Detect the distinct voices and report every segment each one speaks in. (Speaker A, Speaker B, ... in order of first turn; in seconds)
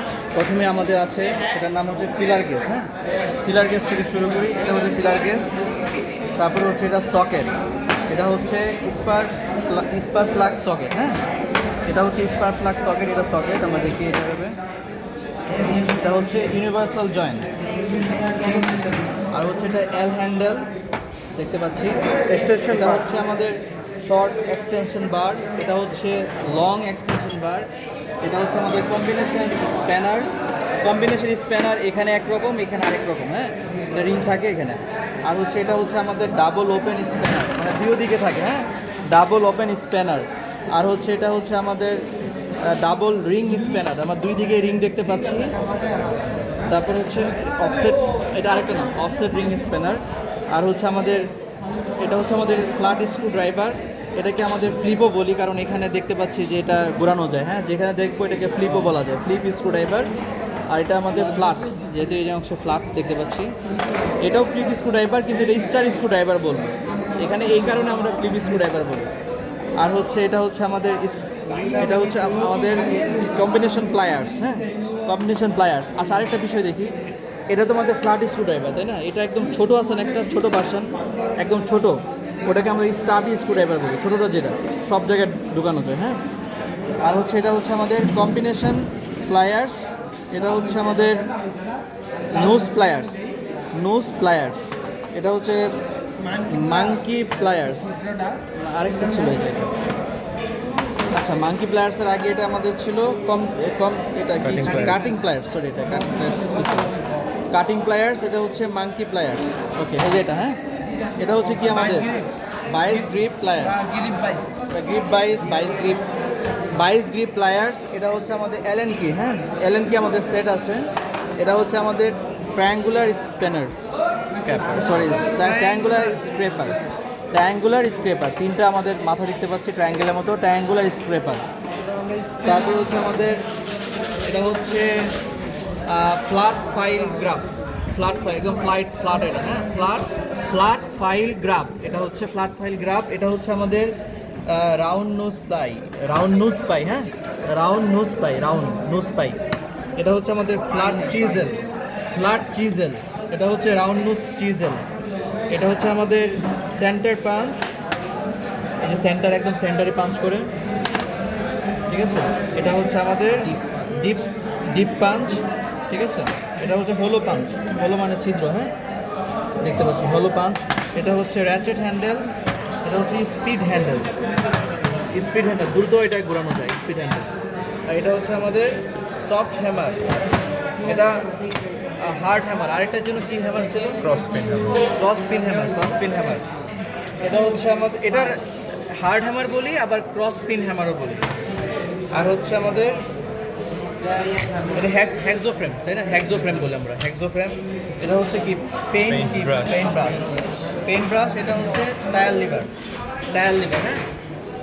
Speaker A: 0.3-2.9, 3.4-5.5, 6.3-7.5, 8.1-11.2, 11.8-14.6, 15.9-17.5, 19.3-20.7, 21.3-27.7, 28.2-42.1, 42.6-45.5, 46.6-51.3, 52.0-60.1, 60.7-63.5, 64.2-69.1, 69.8-77.0, 77.5-86.2, 87.0-91.3, 92.3-95.7, 96.4-98.0, 98.5-99.7, 101.1-107.0, 107.5-110.6, 111.2-114.0, 114.7-116.0, 116.7-123.7, 124.7-126.8, 127.3-131.4, 132.3-133.4, 134.2-135.1, 135.8-149.4, 150.0-151.6, 152.1-154.9, 155.5-157.7, 158.8-160.5, 161.9-168.7, 169.6-172.3, 172.8-174.1, 175.1-177.3, 177.9-180.0, 180.8-181.3, 182.0-184.0, 184.9-186.5, 187.2-191.3, 192.1-193.0, 194.6-200.3, 200.8-202.7, 203.3-204.0
Speaker B: 104.4-105.0, 124.3-124.9, 184.0-184.8, 199.1-199.8